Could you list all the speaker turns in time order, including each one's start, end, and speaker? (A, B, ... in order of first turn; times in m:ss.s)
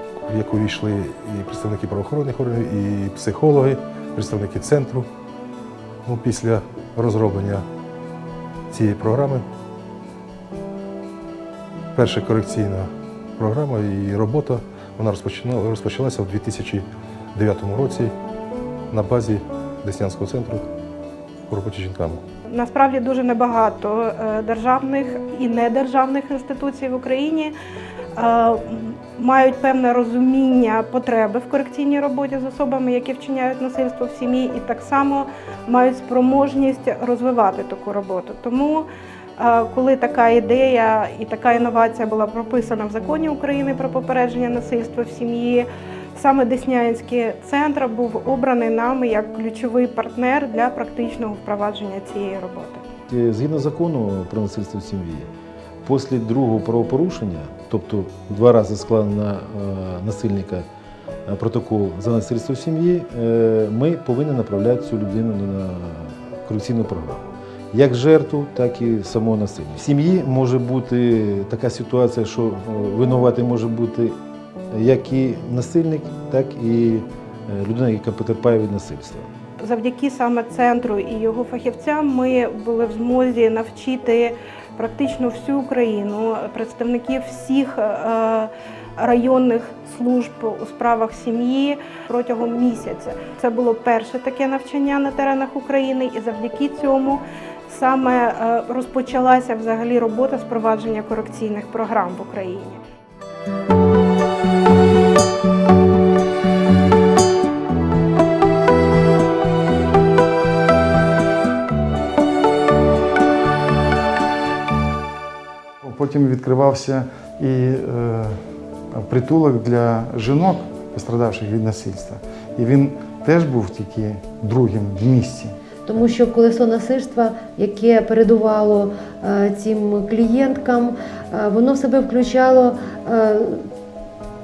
0:00.2-0:05.1 A
0:06.1-0:07.7 A
0:08.7-0:09.5 A
0:12.0-0:18.2 A
0:18.9-0:20.7 A
0:21.5-0:22.2 A
0:22.5-0:27.5 B
0:28.2-0:38.9 B
0:39.4-0:52.8 B
0:53.1-0:55.3 C
0:55.8-1:00.7 C
1:01.3-1:14.2 C
1:14.7-1:19.3 C
1:19.6-1:42.8 B
1:55.8-1:58.4 D
1:58.9-2:05.6 D
2:05.9-2:13.7 E